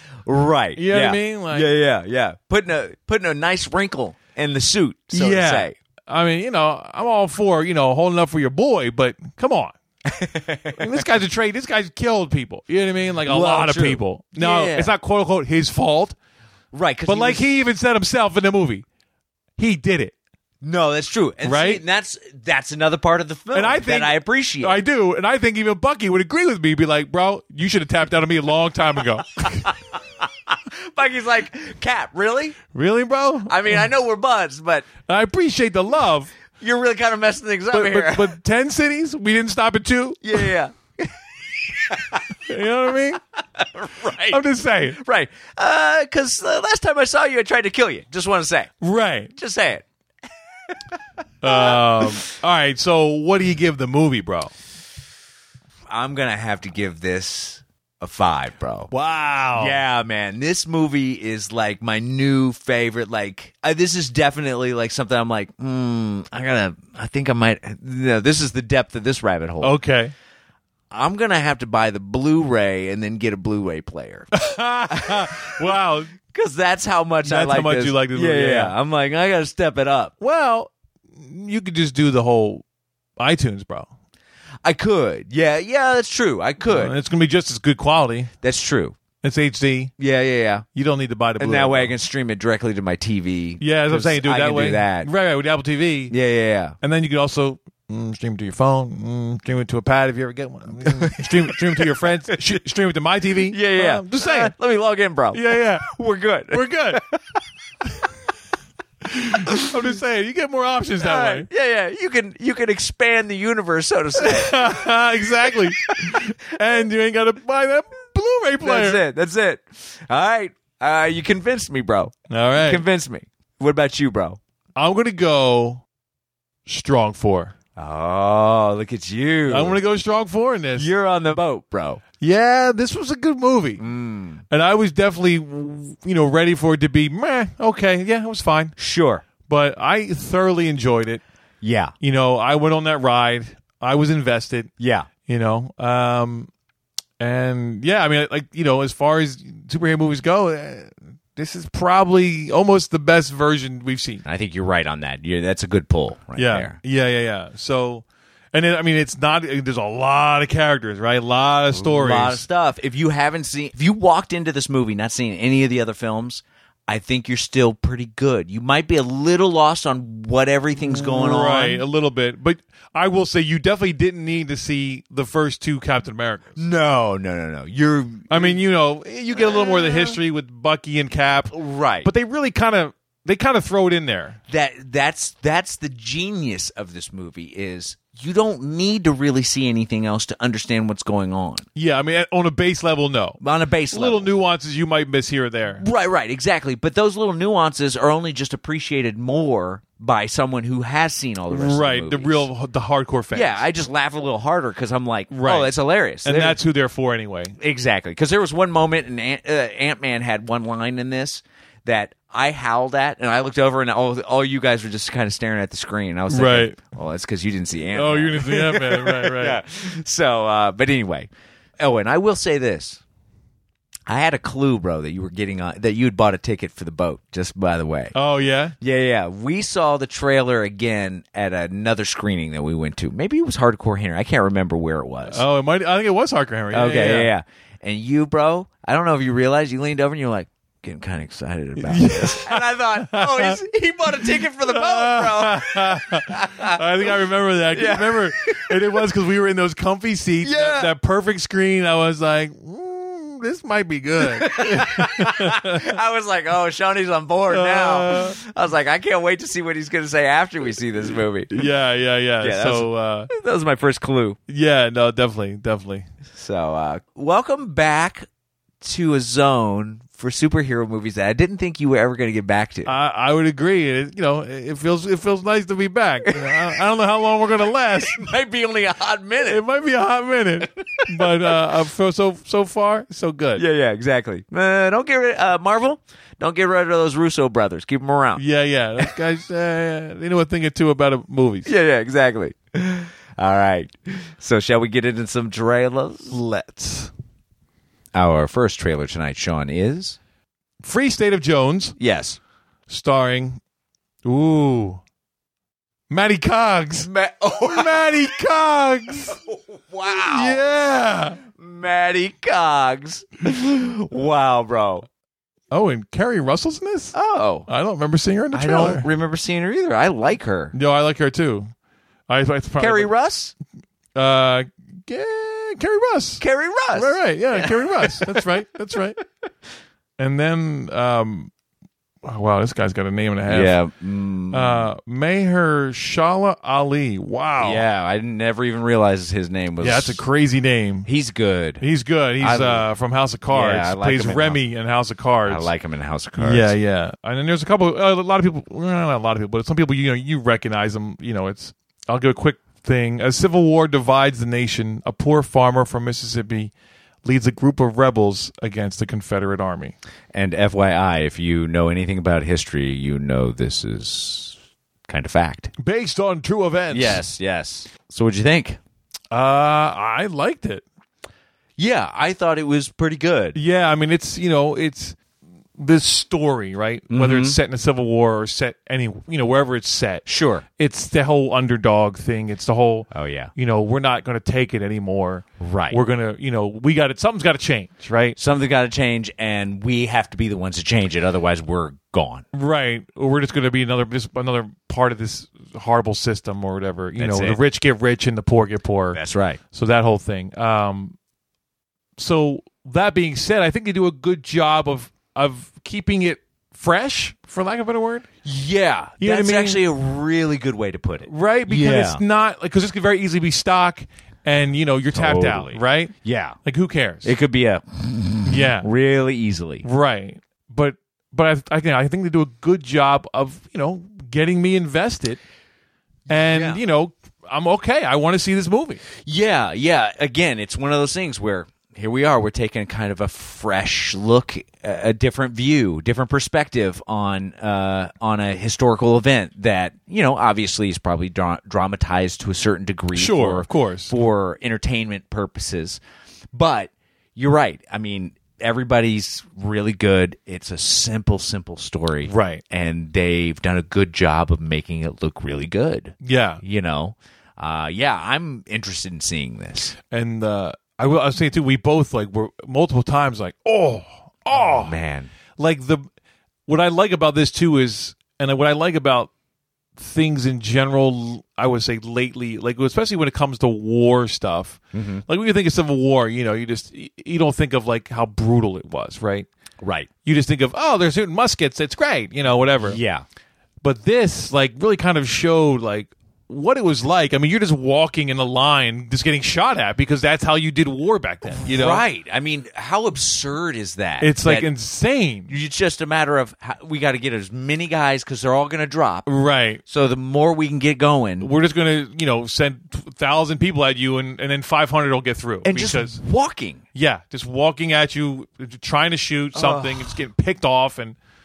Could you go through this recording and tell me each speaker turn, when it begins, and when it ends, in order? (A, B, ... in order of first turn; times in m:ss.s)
0:00.2-0:05.8 A
0:00.8-0:01.7 B
0:05.1-0:09.7 B
0:10.0-0:11.0 A
0:10.8-0:16.2 B
0:13.2-0:14.9 A
0:16.7-0:17.5 A
0:17.0-0:18.8 B
0:19.6-0:20.1 B
0:20.6-0:24.8 A
0:21.4-0:21.8 B
0:23.5-0:29.7 B
0:29.3-0:32.6 A
0:32.7-0:33.9 B
0:33.4-0:34.9 A
0:35.0-0:36.3 B
0:36.6-0:38.3 A
0:37.7-0:40.5 B
0:40.2-0:41.1 A
0:41.7-0:42.4 A
0:42.4-0:43.2 B
0:43.6-0:48.7 A
0:44.3-0:45.0 B
0:48.8-0:49.3 B
0:49.3-0:49.8 A
0:51.4-0:54.5 B
0:51.4-0:52.2 A
0:55.9-0:58.9 A
0:58.9-0:59.8 B
0:59.5-1:09.8 A
1:09.6-1:10.1 B
1:10.9-1:14.4 A
1:14.3-1:16.1 B
1:14.9-1:15.6 A
1:16.2-1:20.1 A
1:17.2-1:18.7 B
1:20.2-1:22.6 B
1:23.2-1:23.9 B
1:24.6-1:26.9 A
1:26.6-1:28.3 B
1:28.4-1:29.0 A
1:29.2-1:29.9 B
1:30.0-1:30.6 A
1:30.7-1:31.9 B
1:31.4-1:35.1 A
1:33.6-1:36.1 B
1:36.1-1:36.8 A
1:36.8-1:44.5 B
1:40.8-1:42.6 A
1:43.5-1:47.2 A
1:45.3-1:45.9 B
1:46.5-1:47.0 B
1:49.0-1:51.5 B
1:51.0-1:55.0 A
1:54.2-1:59.0 B
1:55.5-1:56.2 A
1:58.6-2:04.4 A
2:02.3-2:02.8 B
2:04.8-2:05.8 B
2:06.6-2:07.5 B
2:07.8-2:09.8 A
2:09.5-2:10.9 B
2:10.8-2:12.0 A
2:12.2-2:13.8 B
2:13.8-2:14.4 A
2:14.5-2:18.7 B
2:18.8-2:19.2 A
2:19.4-2:21.2 B
2:21.6-2:21.9 A
2:22.0-2:24.7 B
2:24.8-2:25.1 A
2:25.2-2:26.5 B
2:27.2-2:34.2 B
2:34.2-2:36.8 A
2:36.4-2:42.4 B
2:41.7-2:51.8 A
2:50.8-2:56.6 B
2:56.6-2:58.6 A
2:58.3-3:04.4 B
2:59.4-3:00.2 A
3:01.5-3:02.1 A
3:04.5-3:11.6 A
3:11.7-3:13.4 B
3:13.4-3:14.3 A
3:13.9-3:15.8 B
3:15.8-3:22.5 A
3:21.5-3:23.6 B
3:23.3-3:26.6 A
3:25.3-3:27.6 B
3:27.6-3:43.0 A
3:36.3-3:36.8 B
3:37.9-3:39.6 B
3:44.1-3:48.1 A
3:48.1-3:48.7 B
3:48.8-3:55.4 A
3:55.3-3:57.3 B
3:56.7-4:07.2 A
4:01.8-4:03.6 B
4:04.2-4:15.9 B
4:07.7-4:09.0 A
4:10.4-4:10.9 A
4:14.2-4:21.6 A
4:17.5-4:18.4 B
4:21.5-4:23.3 B
4:22.4-4:24.4 A
4:24.5-4:26.1 B
4:26.3-4:28.3 A
4:28.8-4:32.9 A
4:32.8-4:38.3 B
4:36.2-4:36.8 A
4:38.0-4:39.6 A
4:39.4-4:43.6 B
4:40.9-4:41.3 A
4:43.6-4:48.4 A
4:48.4-4:51.7 B
4:51.6-4:56.4 A
4:56.3-4:57.1 B
4:58.1-5:00.2 A
5:00.8-5:01.9 B
5:02.0-5:02.4 A
5:02.9-5:03.6 B
5:04.2-5:05.0 B
5:06.1-5:07.1 B
5:07.0-5:08.2 A
5:07.6-5:09.4 B
5:09.4-5:10.6 A
5:10.1-5:11.4 B
5:11.5-5:15.1 A
5:15.7-5:17.1 B
5:17.1-5:17.7 A
5:17.7-5:19.1 B
5:18.5-5:20.7 A
5:20.7-5:21.7 B
5:22.3-5:23.1 B
5:22.8-5:23.5 A
5:24.1-5:26.4 B
5:26.4-5:28.4 A
5:26.9-5:29.2 B
5:30.2-5:31.5 B
5:32.2-5:33.8 B
5:33.5-5:34.9 A
5:34.5-5:37.8 B
5:37.6-5:40.2 A
5:39.8-5:41.1 B
5:41.0-5:41.8 A
5:41.8-5:45.7 B
5:42.4-5:42.9 A
5:43.5-5:44.6 A
5:45.4-5:46.8 A
5:46.4-5:56.7 B
5:57.2-5:59.9 B
6:00.3-6:05.7 A
6:05.8-6:07.2 B
6:06.9-6:08.8 A
6:09.3-6:10.8 B
6:11.8-6:13.6 A
6:13.5-6:15.2 B
6:15.8-6:28.4 B
6:17.1-6:17.6 A
6:20.3-6:20.6 A
6:23.1-6:23.5 A
6:25.6-6:26.0 A
6:28.4-6:32.4 A
6:32.5-6:39.2 B
6:37.2-6:37.6 A
6:39.1-6:39.6 A
6:39.7-6:41.2 B
6:42.2-6:48.3 B
6:48.4-6:52.2 A
6:49.2-6:49.8 B
6:51.2-6:57.3 B
6:55.1-6:56.6 A
6:57.2-6:59.8 A
6:58.4-6:58.9 B
6:59.8-7:05.4 B
7:06.3-7:09.0 B
7:06.3-7:06.8 A
7:09.2-7:26.0 A
7:23.1-7:24.1 B
7:26.5-7:40.0 A
7:32.2-7:32.6 B
7:36.2-7:36.6 B
7:40.1-7:44.9 B
7:44.5-7:45.3 A
7:45.6-7:46.0 B
7:46.6-7:49.3 B
7:50.0-7:59.5 B
7:54.9-7:55.2 A
7:59.8-8:00.1 A
8:00.2-8:03.0 B
8:02.8-8:03.2 A
8:03.8-8:12.0 B
8:11.6-8:14.7 A
8:14.2-8:15.5 B
8:15.5-8:19.3 A
8:19.2-8:19.8 B
8:19.8-8:21.5 A
8:21.4-8:26.2 B
8:25.6-8:26.8 A
8:26.9-8:31.2 B
8:29.5-8:30.2 A